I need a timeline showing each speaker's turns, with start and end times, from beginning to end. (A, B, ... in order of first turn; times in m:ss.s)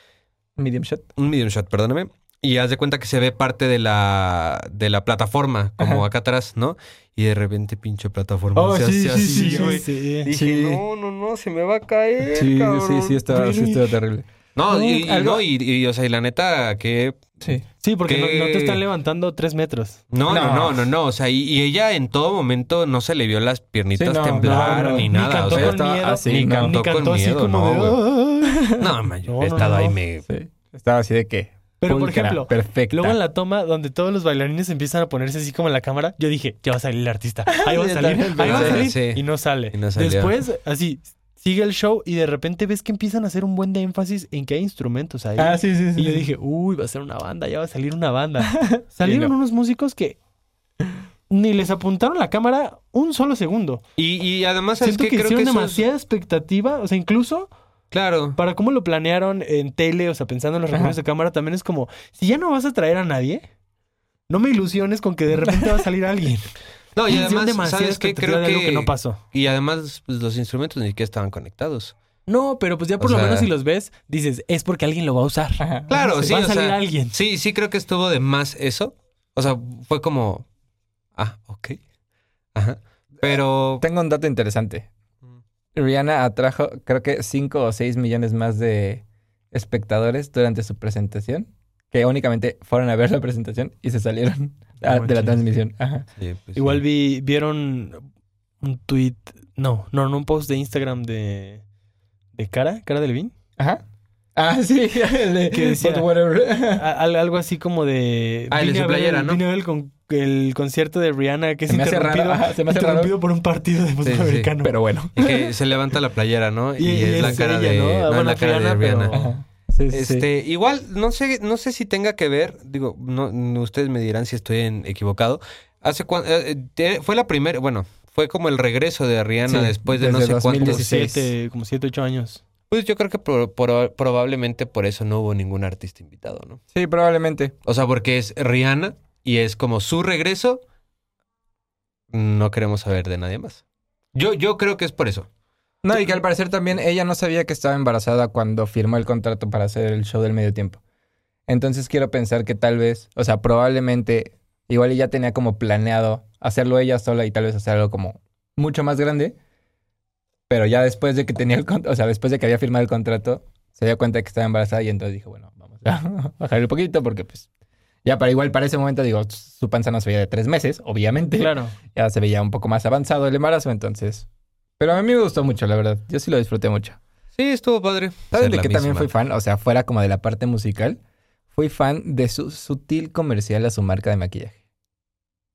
0:00.6-0:01.1 A
0:01.2-0:13.2 B
0:05.8-0:06.0 A
0:08.5-0:10.8 A
0:09.1-0:10.3 C
0:12.3-0:15.4 A
0:13.3-0:13.9 C
0:14.6-0:17.4 B
0:17.8-0:20.1 C
0:18.0-0:18.8 B
0:20.1-0:28.0 B
0:20.3-0:20.8 A
0:24.0-0:26.8 A
0:24.4-0:30.0 C
0:28.6-0:28.8 A
0:28.8-0:30.2 B
0:30.3-0:33.2 A
0:31.8-0:50.2 C
0:37.6-0:38.9 A
0:38.4-0:40.3 B
0:45.4-0:46.3 A
0:48.6-0:49.3 A
0:51.3-0:53.8 C
0:54.0-0:55.8 B
0:54.8-0:57.5 C
0:57.9-0:58.4 B
0:58.4-1:03.4 C
1:04.3-1:06.5 C
1:05.4-1:05.8 A
1:07.0-1:11.9 B
1:07.1-1:09.2 C
1:12.3-1:17.2 C
1:13.0-1:13.5 B
1:15.6-1:15.9 A
1:15.9-1:20.5 B
1:21.2-1:21.8 B
1:22.5-1:23.8 B
1:23.2-1:24.9 A
1:25.7-1:36.1 A
1:34.8-1:35.4 C
1:36.2-1:36.8 B
1:36.6-1:38.0 C
1:38.6-1:41.6 C
1:42.3-1:43.3 C
1:44.4-1:46.8 A
1:45.5-1:46.1 C
1:46.6-1:55.4 C
1:48.5-1:49.4 B
1:51.7-1:53.1 A
1:54.0-1:54.5 B
1:54.6-1:55.3 A
1:55.2-1:59.2 B
1:56.8-1:59.3 C
1:59.1-2:00.3 A
1:59.9-2:10.8 B
2:09.5-2:11.3 A
2:10.6-2:12.4 C
2:12.7-2:16.6 B
2:16.7-2:17.5 A
2:17.6-2:20.6 B
2:22.1-2:23.6 B
2:24.1-2:25.3 B
2:25.8-2:30.8 A
2:31.5-2:39.4 A
2:40.5-2:47.5 A
2:48.0-2:54.3 A
2:51.4-2:51.8 C
2:54.8-2:57.0 A
2:57.3-2:59.1 B
2:58.3-3:01.0 A
3:01.5-3:04.5 A